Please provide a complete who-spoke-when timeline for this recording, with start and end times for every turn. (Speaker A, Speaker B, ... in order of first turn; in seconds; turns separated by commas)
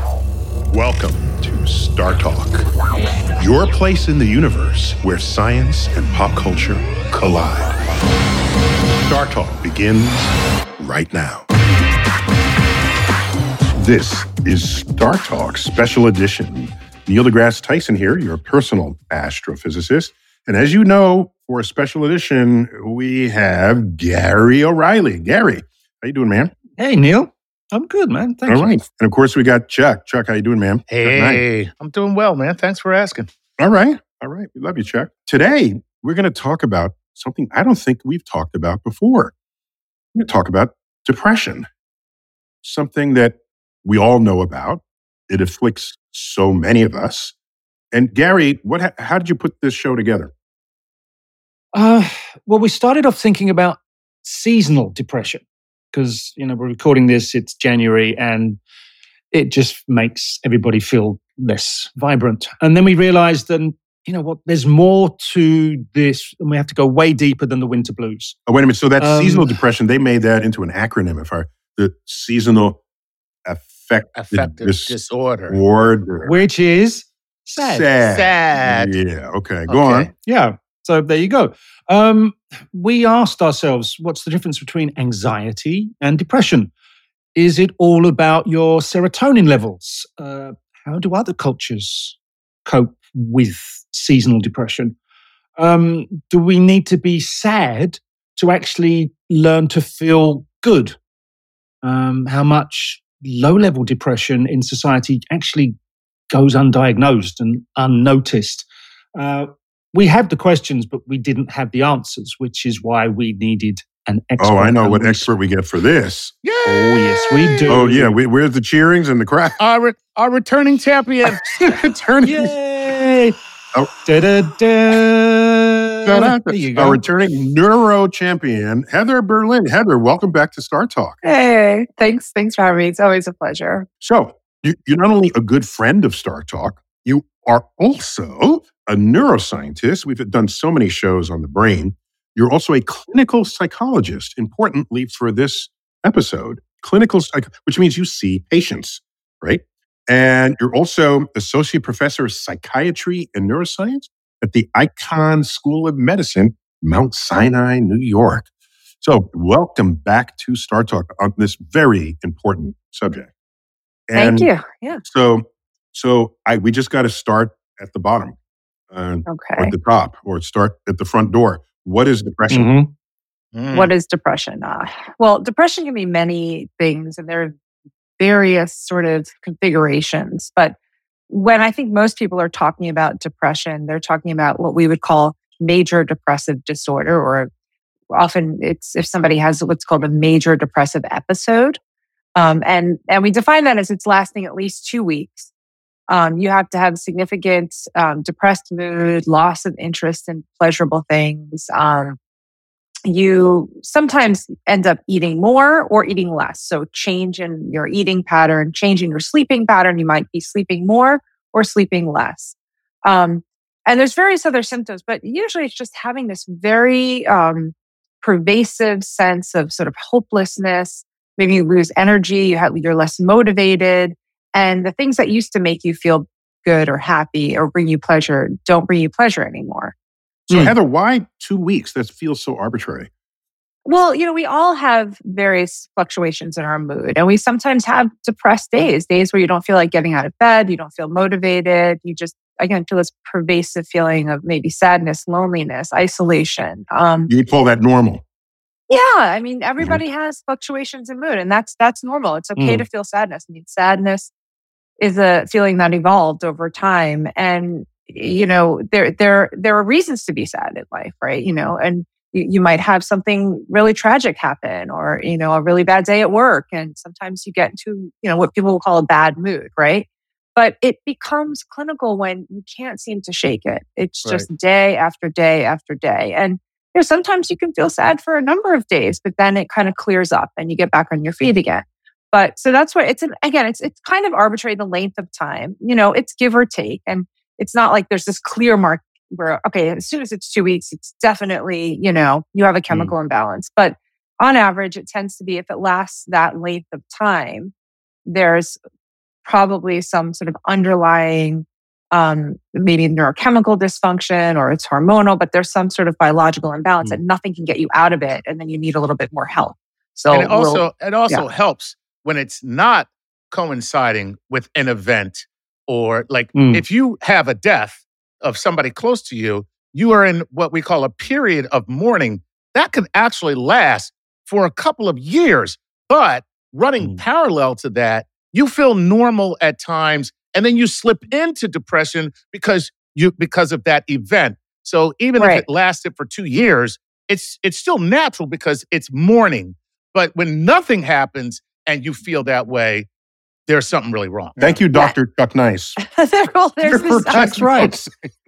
Speaker A: 0.7-2.7, Speaker A: 3.4-7.8, Speaker A: 9.0-11.5, Speaker A: 13.8-26.5, Speaker B: 26.8-28.8, Speaker A: 28.5-31.4, Speaker C: 30.9-33.3, Speaker A: 33.6-39.3, Speaker A: 40.1-41.7, Speaker A: 42.6-47.3, Speaker A: 47.9-50.3, Speaker B: 51.7-55.4, Speaker B: 55.9-58.6, Speaker B: 59.3-68.3, Speaker A: 68.5-72.8, Speaker B: 69.0-69.5, Speaker A: 73.5-74.9, Speaker C: 74.1-75.6, Speaker A: 75.5-76.3, Speaker B: 76.2-77.9, Speaker A: 77.6-80.1, Speaker C: 78.0-78.9, Speaker C: 79.7-80.1, Speaker B: 80.2-86.7, Speaker B: 87.3-95.0, Speaker B: 95.6-101.0, Speaker B: 101.8-105.7, Speaker B: 106.3-115.3, Speaker A: 114.4-116.7, Speaker C: 116.4-117.8, Speaker B: 116.7-118.2, Speaker A: 117.7-119.6, Speaker C: 119.6-121.4, Speaker A: 121.5-122.5, Speaker B: 122.2-123.3, Speaker B: 124.0-127.0, Speaker A: 126.0-131.2, Speaker D: 131.2-133.9, Speaker A: 134.0-158.5, Speaker A: 159.0-163.3, Speaker A: 164.1-164.5, Speaker D: 164.2-165.0, Speaker A: 165.0-168.3, Speaker A: 168.9-172.9, Speaker D: 169.2-169.7, Speaker B: 172.5-172.8, Speaker C: 173.5-173.9, Speaker D: 173.7-177.5, Speaker D: 178.2-180.8, Speaker D: 181.3-187.5, Speaker D: 188.1-191.8, Speaker D: 192.3-195.5, Speaker D: 196.1-202.2, Speaker D: 203.1-229.9, Speaker B: 230.5-230.7, Speaker A: 230.5-233.1, Speaker D: 233.8-247.3, Speaker A: 247.3-248.2, Speaker D: 248.9-254.3, Speaker B: 252.6-252.8, Speaker D: 255.0-297.7, Speaker D: 298.2-298.8, Speaker D: 299.4-311.5, Speaker C: 310.3-343.1, Speaker B: 316.5-316.8, Speaker D: 335.4-335.6, Speaker C: 343.7-344.8, Speaker A: 344.6-346.0, Speaker D: 346.0-347.9, Speaker A: 346.8-348.2, Speaker B: 347.3-347.9